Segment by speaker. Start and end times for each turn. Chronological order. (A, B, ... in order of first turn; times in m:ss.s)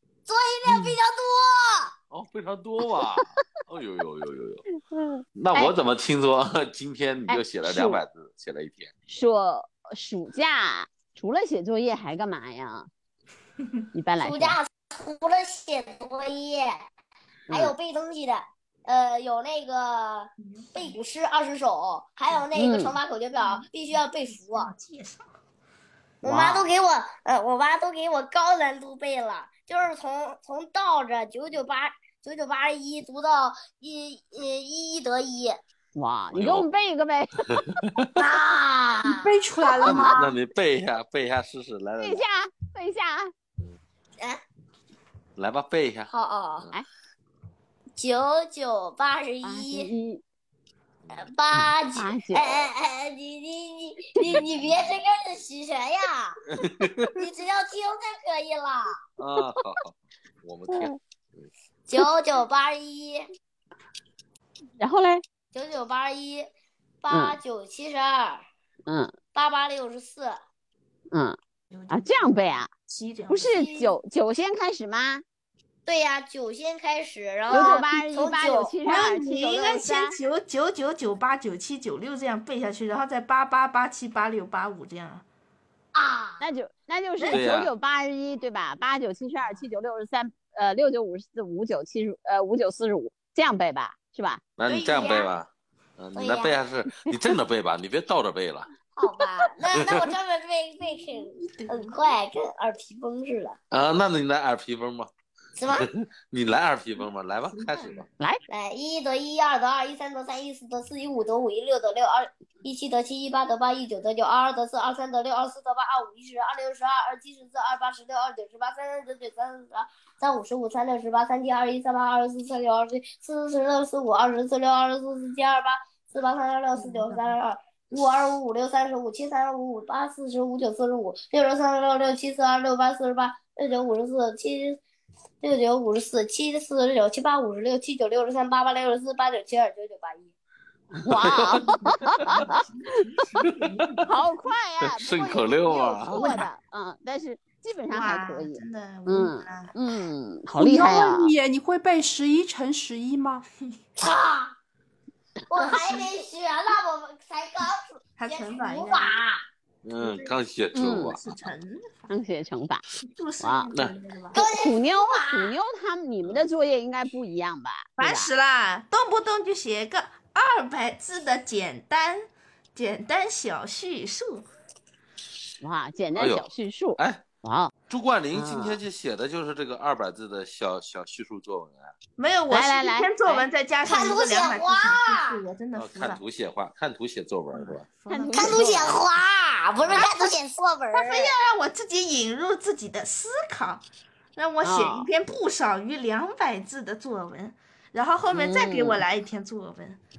0:00.3-0:01.9 A
0:02.1-0:04.6 B
0:04.9-0:05.2 C
0:05.4-0:08.9 B
0:07.3-0:08.0 C
0:09.1-0:12.9 C
0:13.9-0:14.6 C
0:14.2-0:16.8 A
0:17.5-0:24.7 A
0:20.4-0:21.0 D
0:22.6-0:23.0 C
0:23.4-0:23.7 D
0:24.4-0:25.3 D
0:26.2-0:35.6 A
0:26.2-0:26.7 C
0:36.0-0:37.4 C
0:36.3-0:36.7 B
0:37.5-0:38.1 B
0:38.2-0:40.3 A
0:39.0-0:40.2 E
0:39.8-0:42.2 B
0:42.0-0:43.3 C
0:45.4-0:46.1 B
0:46.1-0:46.7 A
0:48.0-0:49.9 A
0:49.4-0:50.2 C
0:51.2-0:56.4 A
0:52.0-0:52.5 C
0:56.6-0:57.1 B
0:57.2-0:59.0 A
0:59.2-1:01.5 B
1:00.7-1:01.0 C
1:01.9-1:03.3 A
1:04.8-1:05.2 C
1:05.5-1:06.5 A
1:07.0-1:08.4 A
1:07.1-1:07.4 C
1:08.9-1:09.1 C
1:09.3-1:10.4 A
1:11.1-1:11.4 C
1:11.7-1:13.7 D
1:11.9-1:12.7 C
1:13.3-1:15.2 C
1:13.5-1:13.9 A
1:15.9-1:18.8 A
1:17.5-1:17.8 D
1:17.5-1:20.2 C
1:18.8-1:25.2 D
1:25.9-1:26.4 A
1:26.4-1:34.4 C
1:27.3-1:27.7 B
1:34.6-1:38.7 B
1:34.7-1:35.3 D
1:36.2-1:36.6 A
1:39.0-1:43.6 A
1:39.7-1:40.0 B
1:41.4-1:42.0 D
1:43.7-1:45.1 B
1:45.6-1:45.9 A
1:45.8-1:48.1 B
1:47.5-1:48.0 D
1:48.5-2:14.8 A
2:06.8-2:07.4 D
2:15.4-2:20.3 A
2:20.9-2:23.0 C
2:21.0-2:22.5 B
2:22.2-2:24.2 D
2:23.4-2:23.9 B
2:24.1-2:31.3 C
2:24.8-2:26.4 B
2:26.1-2:26.5 D
2:27.9-2:29.7 D
2:30.5-2:33.4 E
2:34.0-2:34.6 A
2:35.5-2:39.4 A
2:35.6-2:36.2 D
2:38.2-2:39.2 D
2:39.8-2:41.4 B
2:40.0-2:42.1 D
2:40.7-2:41.2 C
2:42.1-2:42.8 C
2:43.1-2:44.4 D
2:43.4-2:43.7 C
2:44.3-2:45.5 A
2:44.4-2:48.3 C
2:48.0-2:54.5 D
2:55.6-2:57.7 C
2:56.2-2:57.2 B
2:57.9-3:01.9 B
2:58.3-2:58.8 C
3:02.2-3:06.2 D
3:02.5-3:03.5 C
3:03.8-3:05.4 A
3:05.8-3:07.8 B
3:07.5-3:09.0 D
3:08.1-3:09.0 C
3:08.4-3:11.4 A
3:09.8-3:10.1 B
3:09.9-3:10.4 D
3:10.9-3:13.8 D
3:14.4-3:20.0 D
3:14.6-3:15.1 C
3:18.3-3:19.0 C